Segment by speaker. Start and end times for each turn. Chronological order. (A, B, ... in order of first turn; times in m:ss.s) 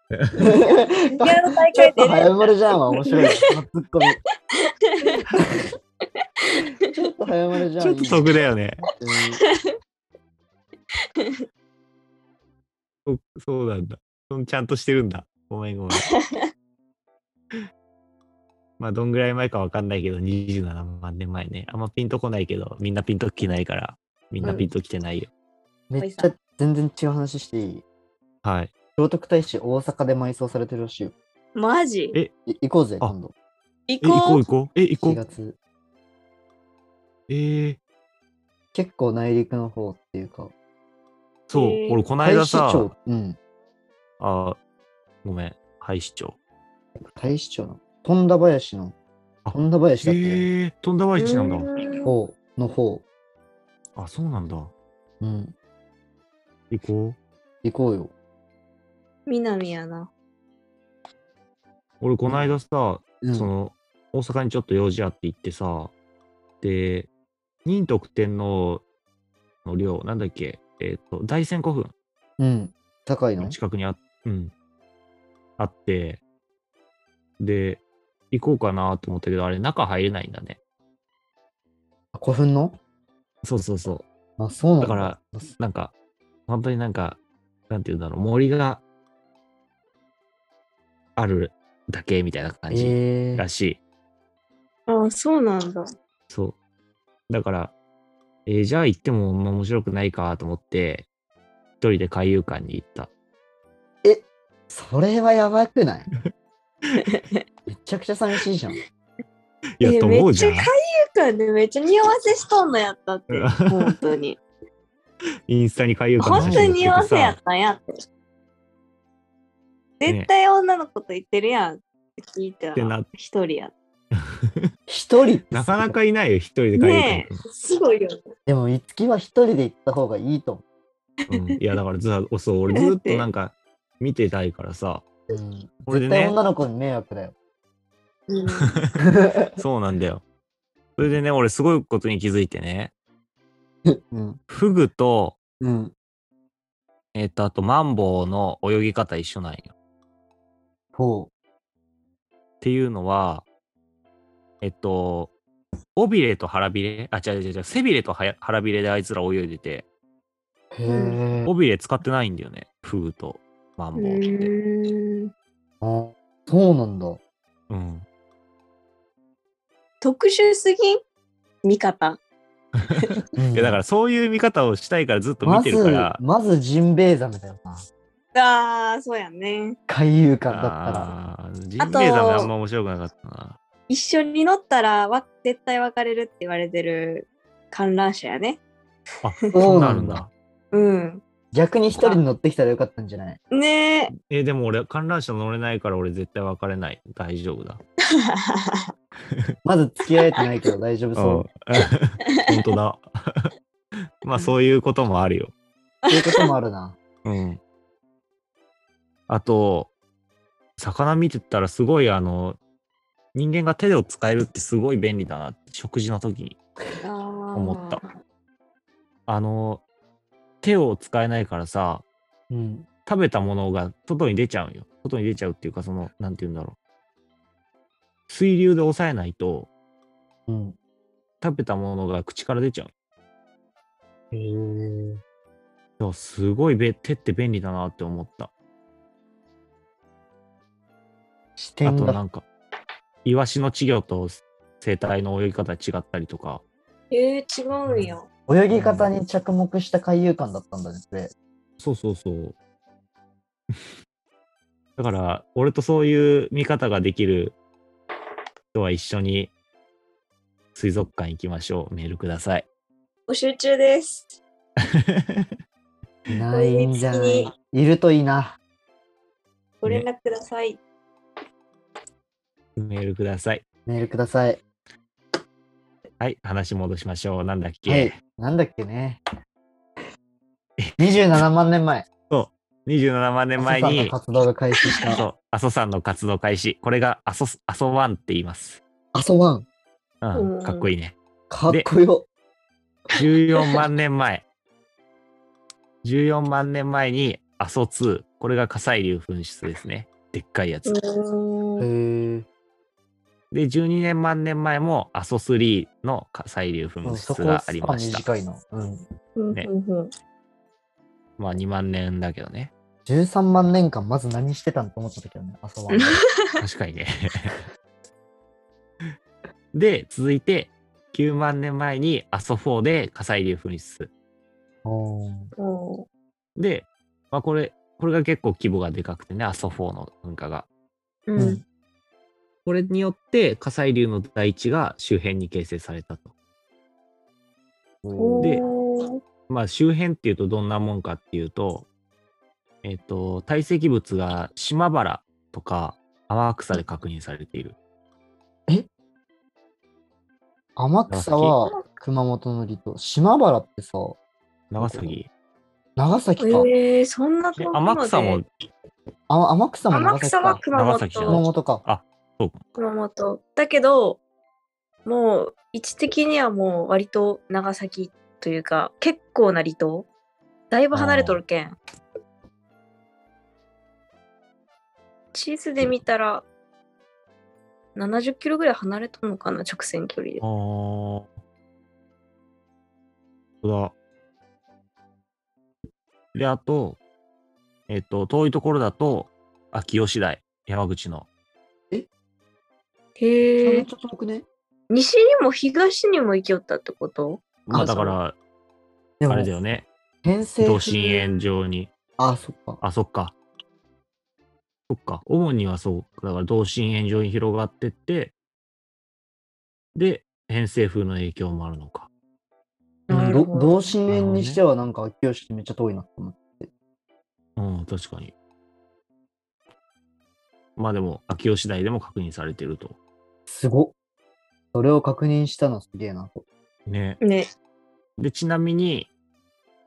0:00.2-0:00.5 A
0:00.4-0:04.2 B
0:01.1-0:02.4 C
0:03.0-0:03.3 C
0:04.5-0:05.2 C
0:06.8-0:08.2 B
0:07.8-0:08.8 A
0:09.0-0:09.4 B
0:09.5-0:09.7 C
0:11.2-0:11.4 C
0:13.1-0:16.1 A
0:16.0-0:16.5 C
0:18.8-0:25.3 A
0:24.4-0:24.7 C
0:25.9-0:27.8 B
0:26.0-0:26.3 C
0:28.4-0:28.7 A
0:29.0-0:31.1 B
0:31.6-0:32.2 C
0:32.5-0:33.3 B
0:33.9-0:34.4 C
0:34.0-0:35.2 A
0:35.0-0:35.6 B
0:37.3-0:37.8 A
0:38.7-0:40.5 B
0:41.5-0:42.9 A
0:41.5-0:42.0 C
0:42.2-0:43.4 B
0:44.2-0:44.6 A
0:45.2-0:46.4 A
0:47.1-0:49.0 B
0:49.4-0:51.7 A
0:49.5-0:50.5 B
0:51.2-0:52.1 C
0:52.1-0:53.0 B
0:54.0-0:54.7 A
0:55.2-0:55.6 B
0:56.7-0:57.2 A
0:57.6-0:58.1 B
0:59.3-1:00.1 C
1:02.0-1:05.9 A
1:02.2-1:02.5 B
1:03.2-1:03.5 B
1:06.6-1:07.1 A
1:07.6-1:08.8 A
1:09.6-1:11.9 A
1:12.4-1:13.6 B
1:13.4-1:14.5 A
1:15.6-1:16.2 A
1:17.4-1:20.6 A
1:22.1-1:22.8 B
1:23.4-1:24.1 A
1:24.4-1:25.4 B
1:24.8-1:25.9 A
1:26.5-1:27.2 A
1:27.7-1:28.8 A
1:31.2-1:33.8 A
1:32.7-1:33.5 B
1:34.9-1:35.9 C
1:36.3-1:36.6 A
1:37.3-1:37.7 A
1:38.5-1:41.1 A
1:41.8-1:43.1 A
1:44.0-1:46.1 B
1:47.0-1:47.4 C
1:47.7-1:48.8 B
1:49.8-1:50.7 A
1:49.8-1:54.4 C
1:53.3-1:53.9 A
1:55.5-1:57.4 A
1:56.2-1:57.9 C
1:56.3-1:56.8 B
2:00.0-2:03.7 C
2:02.8-2:03.1 A
2:04.2-2:04.7 A
2:04.9-2:06.0 B
2:05.5-2:07.4 A
2:06.8-2:08.2 C
2:08.5-2:10.6 B
2:11.3-2:15.0 A
2:12.7-2:13.2 C
2:15.3-2:17.4 B
2:15.9-2:16.4 A
2:18.3-2:18.8 C
2:18.6-2:18.9 A
2:19.0-2:19.6 B
2:19.6-2:20.2 A
2:21.0-2:22.9 A
2:23.9-2:24.4 B
2:24.5-2:25.4 A
2:25.6-2:25.9 B
2:27.2-2:29.7 A
2:30.9-2:31.3 B
2:32.6-2:33.4 A
2:34.6-2:35.3 A
2:36.0-2:39.9 A
2:40.7-2:41.5 B
2:40.9-2:41.2 C
2:41.5-2:44.5 A
2:44.0-2:45.3 C
2:45.8-2:47.2 B
2:47.7-2:48.1 A
2:50.0-2:51.0 C
2:51.6-2:52.2 C
2:53.4-2:53.8 B
2:53.5-2:56.2 A
2:55.4-2:57.8 B
2:58.3-2:59.8 C
2:59.9-3:01.1 B
3:00.5-3:03.6 A
3:01.8-3:02.5 C
3:03.9-3:08.6 C
3:09.2-3:10.3 A
3:09.5-3:10.2 B
3:10.7-3:11.2 C
3:11.5-3:13.4 B
3:13.5-3:14.1 C
3:14.2-3:17.8 A
3:18.1-3:18.9 C
3:19.6-3:21.5 B
3:21.2-3:23.5 A
3:24.2-3:25.5 A
3:26.1-3:26.5 C
3:26.1-3:27.0 B
3:27.2-3:27.6 A
3:29.3-3:29.9 A
3:30.8-3:32.6 A
3:33.4-3:36.6 A
3:37.0-3:38.0 C
3:37.5-3:38.0 A
3:39.3-3:39.8 A
3:40.6-3:42.0 A
3:42.5-3:42.9 B
3:43.1-3:46.8 A
3:48.3-3:49.7 A
3:50.5-3:50.8 B
3:51.4-3:52.9 A
3:54.3-3:55.2 B
3:56.0-3:58.5 A
4:01.6-4:02.2 B
4:01.8-4:02.5 A
4:03.2-4:06.6 A
4:07.1-4:08.3 C
4:07.9-4:08.1 A
4:08.5-4:11.3 B
4:08.7-4:09.1 A
4:11.8-4:12.6 A
4:15.0-4:17.6 A
4:18.7-4:19.5 A
4:20.8-4:22.7 A
4:23.3-4:24.3 C
4:24.8-4:25.5 A
4:26.3-4:28.6 B
4:26.5-4:27.5 C
4:29.8-4:30.8 C
4:32.8-4:33.6 A
4:33.9-4:34.6 B
4:36.2-4:38.2 A
4:37.9-4:39.2 B
4:41.0-4:42.1 B
4:42.3-4:44.1 A
4:43.6-4:45.2 B
4:44.8-4:45.2 C
4:45.1-4:48.8 A
4:49.1-4:49.6 B
4:50.2-4:51.2 A
4:50.3-4:50.9 C
4:51.5-4:52.3 B
4:53.1-4:54.4 A
4:56.0-5:00.9 A
5:00.9-5:01.9 C
5:01.8-5:02.5 B
5:03.5-5:08.2 A
5:07.0-5:09.0 B
5:09.4-5:10.1 C
5:11.4-5:12.7 A
5:13.1-5:16.2 B
5:15.9-5:16.6 C
5:16.6-5:17.6 A
5:19.7-5:24.1 A
5:24.8-5:25.5 B
5:25.6-5:26.1 C
5:26.6-5:30.6 A
5:31.3-5:31.6 C
5:31.4-5:31.6 B
5:32.6-5:36.3 A
5:38.0-5:38.6 B
5:38.1-5:39.2 C
5:39.5-5:41.9 A
5:42.8-5:47.8 A
5:50.8-5:54.2 B
5:51.1-5:51.6 A
5:54.7-5:55.3 A
5:54.8-5:55.2 B
5:56.0-5:56.7 B
5:56.4-5:58.4 C
5:57.6-5:58.5 A
5:59.3-6:00.6 B
5:59.9-6:01.4 C
6:00.7-6:02.6 A
6:01.3-6:01.8 B
6:02.8-6:04.2 C
6:05.0-6:10.1 C
6:10.7-6:11.8 C
6:10.9-6:11.4 A
6:15.3-6:16.5 C
6:17.9-6:20.4 C
6:20.4-6:21.3 A
6:23.6-6:23.9 A
6:26.3-6:27.0 A
6:27.9-6:31.3 A
6:33.2-6:33.9 C
6:33.6-6:34.4 B
6:34.9-6:38.2 C
6:37.7-6:37.9 B
6:37.7-6:38.4 A
6:39.2-6:39.5 B
6:39.3-6:39.9 A
6:40.2-6:41.0 B
6:40.6-6:41.9 A
6:41.0-6:41.3 C
6:42.2-6:42.8 B
6:42.8-6:43.3 A
6:44.9-6:48.3 A
6:49.9-6:52.1 A
6:53.1-6:53.9 C
6:53.1-6:56.7 B
6:53.1-6:53.4 A
6:54.1-6:54.6 A
6:57.6-6:58.3 A
7:00.8-7:03.0 A
7:03.5-7:03.9 B
7:04.7-7:06.4 B
7:06.9-7:07.2 A
7:07.2-7:07.5 C
7:08.2-7:09.1 A